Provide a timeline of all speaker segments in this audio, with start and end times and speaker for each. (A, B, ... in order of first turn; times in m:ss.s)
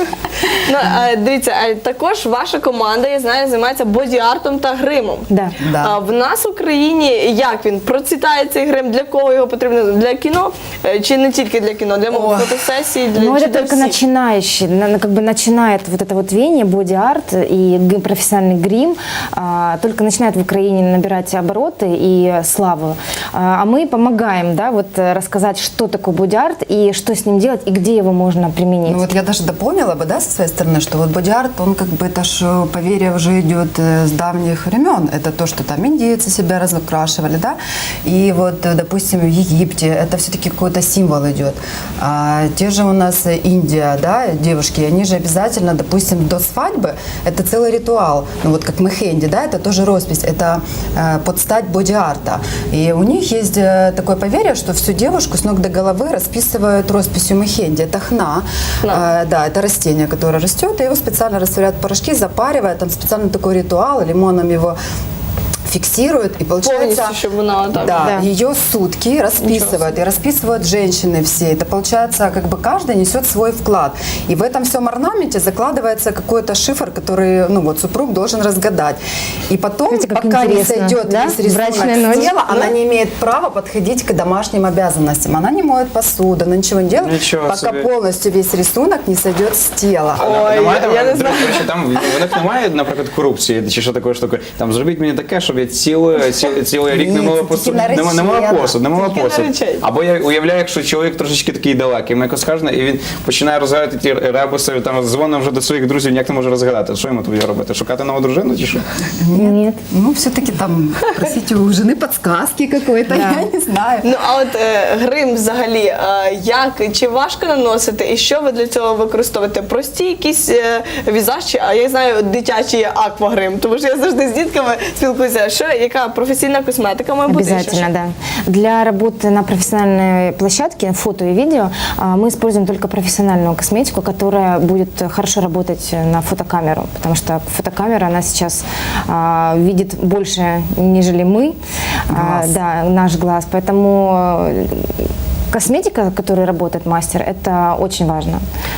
0:00.6-0:14.0 A
0:05.3-0:05.6 B
0:05.6-0:06.0 C
0:12.1-0:12.6 C
0:13.2-0:29.1 B
0:28.8-1:04.8 C
1:05.7-1:07.2 C
1:06.6-1:08.0 A
1:07.7-1:30.2 C
1:07.9-1:08.3 B
1:09.4-1:09.9 A
1:19.9-1:22.4 B
1:27.0-1:27.9 D
1:30.2-1:32.4 A
1:30.2-1:48.8 D
1:36.9-1:38.8 C
1:38.9-1:39.8 A
1:49.2-1:54.1 C
1:49.3-1:49.8 B
1:53.1-1:53.5 B
1:54.0-2:07.9 A
2:07.3-2:21.6 B
2:22.1-2:22.6 C
2:22.1-2:24.9 B
2:25.5-2:28.4 B